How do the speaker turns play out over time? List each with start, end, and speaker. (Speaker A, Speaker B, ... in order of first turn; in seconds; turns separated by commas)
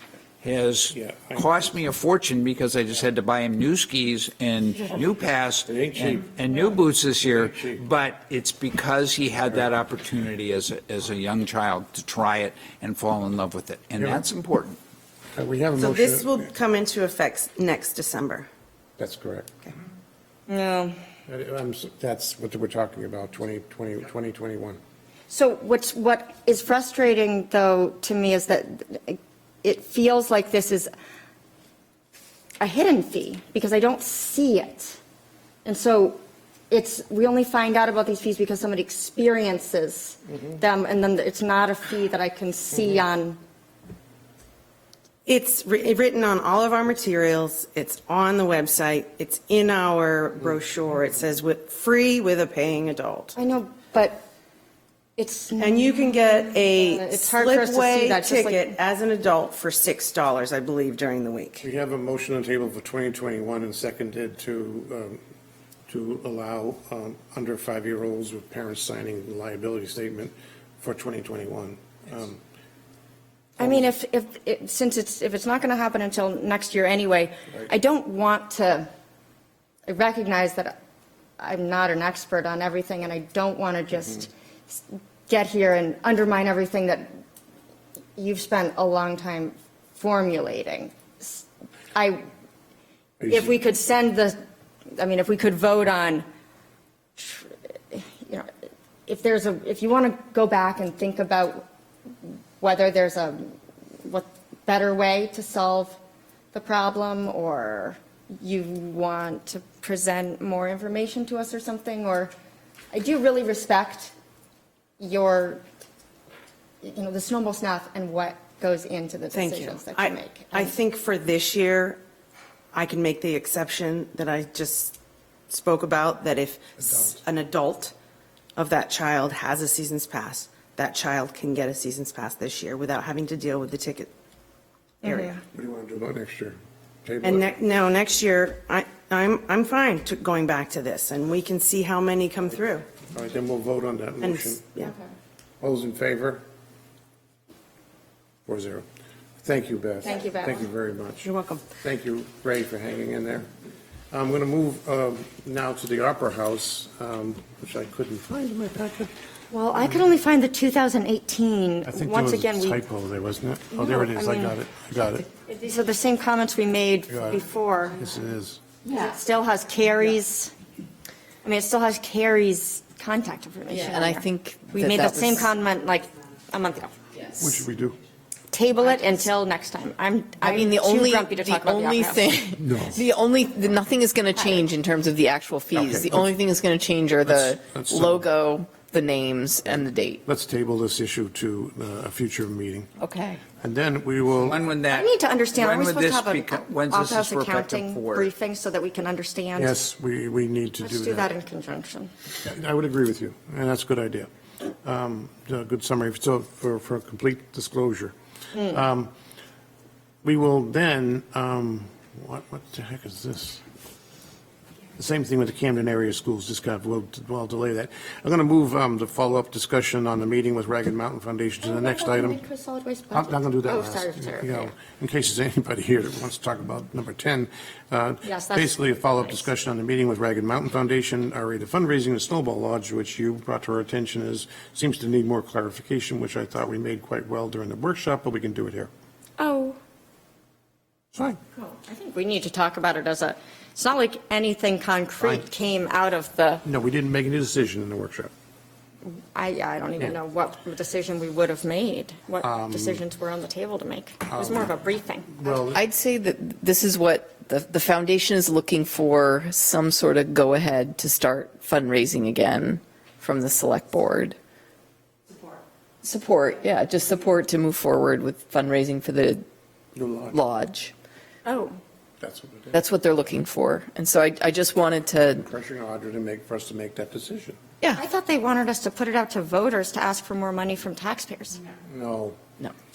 Speaker A: 0.4-14.8, Speaker B: 0.9-1.8, Speaker B: 5.7-6.3, Speaker B: 7.2-7.8, Speaker B: 14.0-14.3, Speaker B: 15.3-16.4, Speaker C: 15.8-18.5, Speaker B: 19.0-19.6, Speaker D: 20.5-21.0, Speaker B: 21.3-24.8, Speaker D: 25.3-30.9, Speaker D: 32.6-35.0, Speaker D: 35.6-36.2, Speaker D: 36.7-43.4, Speaker C: 45.3-53.4, Speaker D: 53.4-54.2, Speaker D: 55.2-58.8, Speaker C: 55.6-61.6, Speaker B: 61.6-65.2, Speaker B: 65.9-72.4, Speaker D: 73.6-78.9, Speaker D: 79.9-80.8, Speaker D: 81.4-87.2, Speaker D: 88.2-92.3, Speaker B: 93.2-93.5, Speaker D: 93.3-94.4, Speaker D: 95.0-96.3, Speaker D: 97.2-98.5, Speaker D: 99.1-101.7, Speaker D: 102.2-106.0, Speaker D: 106.5-112.3, Speaker D: 112.9-114.1, Speaker D: 115.0-115.6, Speaker D: 116.8-120.8, Speaker C: 119.3-122.0, Speaker C: 122.7-125.0, Speaker C: 125.5-127.9, Speaker B: 126.8-127.2, Speaker C: 128.6-134.1, Speaker C: 135.0-135.4, Speaker D: 135.0-135.4, Speaker B: 135.5-137.5, Speaker C: 137.2-142.9, Speaker B: 143.1-144.7, Speaker C: 144.2-144.9, Speaker B: 145.6-146.4, Speaker B: 148.5-148.9, Speaker B: 149.4-153.5, Speaker D: 150.0-150.6, Speaker C: 151.2-151.7, Speaker B: 154.1-159.1, Speaker D: 159.5-162.8, Speaker B: 161.9-165.3, Speaker D: 163.7-164.6, Speaker D: 165.5-168.0, Speaker B: 167.1-167.4, Speaker B: 168.0-168.6, Speaker D: 168.9-170.5, Speaker D: 171.4-177.0, Speaker E: 173.7-175.5, Speaker B: 177.4-178.0, Speaker D: 178.5-182.3, Speaker E: 180.4-190.2, Speaker B: 182.6-183.0, Speaker B: 185.7-186.3, Speaker B: 187.2-188.3, Speaker B: 190.3-192.9, Speaker E: 193.0-193.4, Speaker B: 193.6-194.6, Speaker A: 194.3-198.3, Speaker D: 194.9-199.8, Speaker B: 199.6-201.3, Speaker D: 200.8-202.1, Speaker B: 202.4-204.3, Speaker B: 204.8-209.1, Speaker B: 210.2-213.6, Speaker B: 215.0-222.4, Speaker D: 221.6-224.7, Speaker B: 223.1-238.9, Speaker D: 228.2-228.8, Speaker D: 239.4-239.8, Speaker B: 241.1-241.4, Speaker D: 241.6-246.6, Speaker B: 246.7-248.3, Speaker D: 249.1-255.5, Speaker B: 252.4-253.0, Speaker B: 254.3-254.7, Speaker B: 255.3-255.8, Speaker E: 255.7-264.4, Speaker E: 266.0-269.4, Speaker B: 269.9-270.4, Speaker E: 270.3-270.9, Speaker D: 271.5-271.8, Speaker B: 272.2-272.8, Speaker E: 272.7-275.5, Speaker B: 275.4-277.6, Speaker D: 277.9-281.6, Speaker B: 281.9-282.4